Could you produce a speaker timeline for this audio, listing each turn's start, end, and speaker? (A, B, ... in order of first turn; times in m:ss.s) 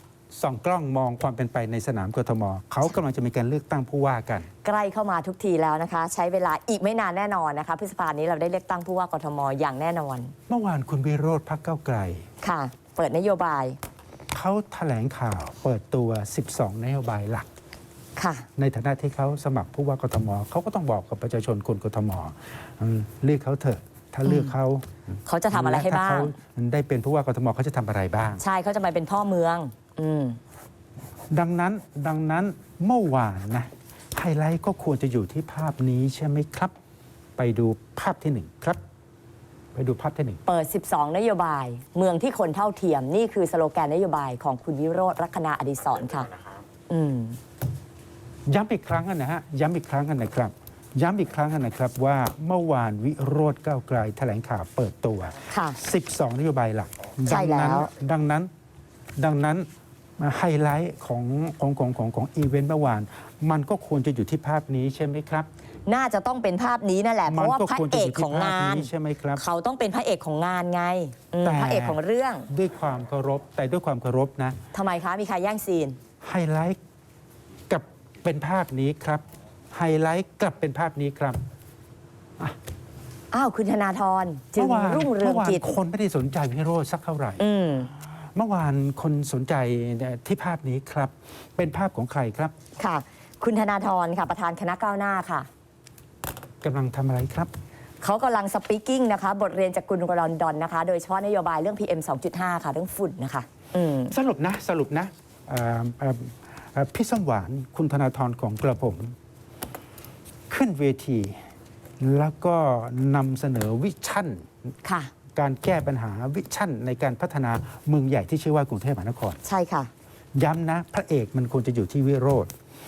0:00.3-0:04.5 A
0:04.6-0:10.3 B
0:10.5-0:12.2 A
0:12.4-0:13.8 B
0:14.3-0:17.5 A
0:18.2-0:18.5 B
0:18.6-0:24.9 A
0:24.2-0:24.5 B
0:25.2-0:26.4 B
0:25.5-0:28.4 A
0:28.4-0:30.4 B
0:31.3-0:36.7 A
0:37.4-0:38.8 A
0:39.7-0:40.4 A
0:40.4-0:46.3 B
0:46.9-0:47.4 B
0:48.5-0:58.5 A
0:55.5-0:55.8 B
0:57.3-0:57.9 B
0:59.2-0:59.6 A
1:00.2-1:05.5 A
1:05.9-1:12.5 B
1:07.2-1:09.4 A
1:11.4-1:14.6 A
1:14.7-1:16.0 B
1:16.2-1:16.8 A
1:17.7-1:21.4 A
1:23.3-1:25.7 B
1:24.6-1:27.4 A
1:27.4-1:27.9 B
1:28.3-1:32.5 A
1:32.8-1:35.5 B
1:36.6-1:37.5 A
1:38.0-1:44.1 B
1:44.1-1:49.1 A
1:50.5-1:51.4 A
1:52.0-1:54.5 A
1:54.8-1:55.1 B
1:55.3-1:59.4 A
1:59.4-1:59.9 B
2:00.3-2:02.5 A